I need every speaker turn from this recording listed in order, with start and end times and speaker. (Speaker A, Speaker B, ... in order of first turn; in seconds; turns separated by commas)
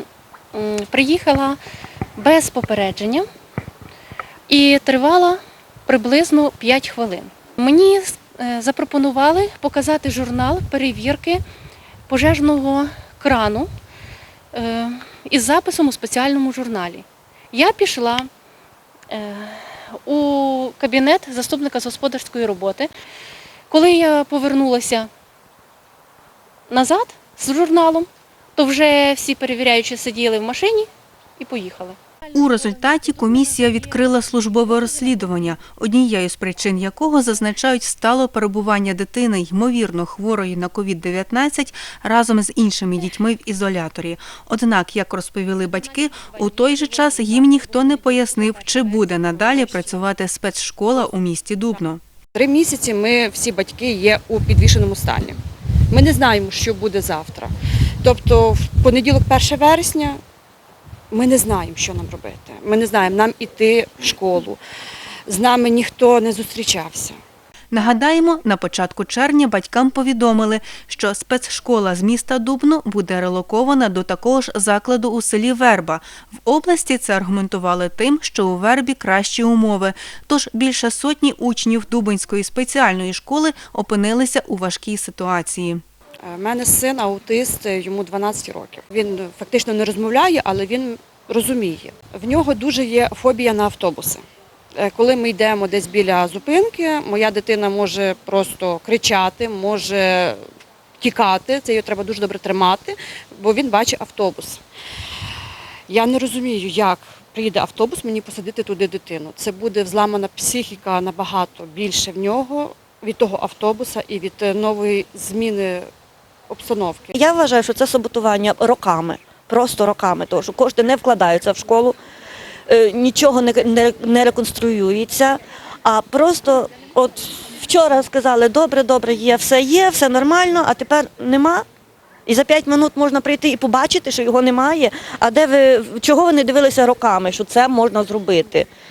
Speaker A: 0.5-1.6, Speaker A: 2.2-3.2, Speaker A: 4.5-11.4, Speaker A: 12.1-13.7, Speaker A: 14.5-18.3, Speaker A: 19.1-22.9, Speaker A: 23.7-25.1, Speaker A: 26.7-32.0, Speaker B: 32.3-52.0, Speaker C: 52.3-55.4, Speaker C: 55.9-60.2, Speaker C: 61.1-64.6, Speaker C: 65.3-67.2, Speaker B: 67.7-85.8, Speaker C: 86.2-94.2, Speaker C: 94.8-100.4, Speaker C: 101.0-104.6, Speaker C: 105.9-115.9, Speaker C: 116.5-117.1, Speaker D: 117.1-122.0, Speaker D: 122.7-131.7, Speaker D: 132.3-138.7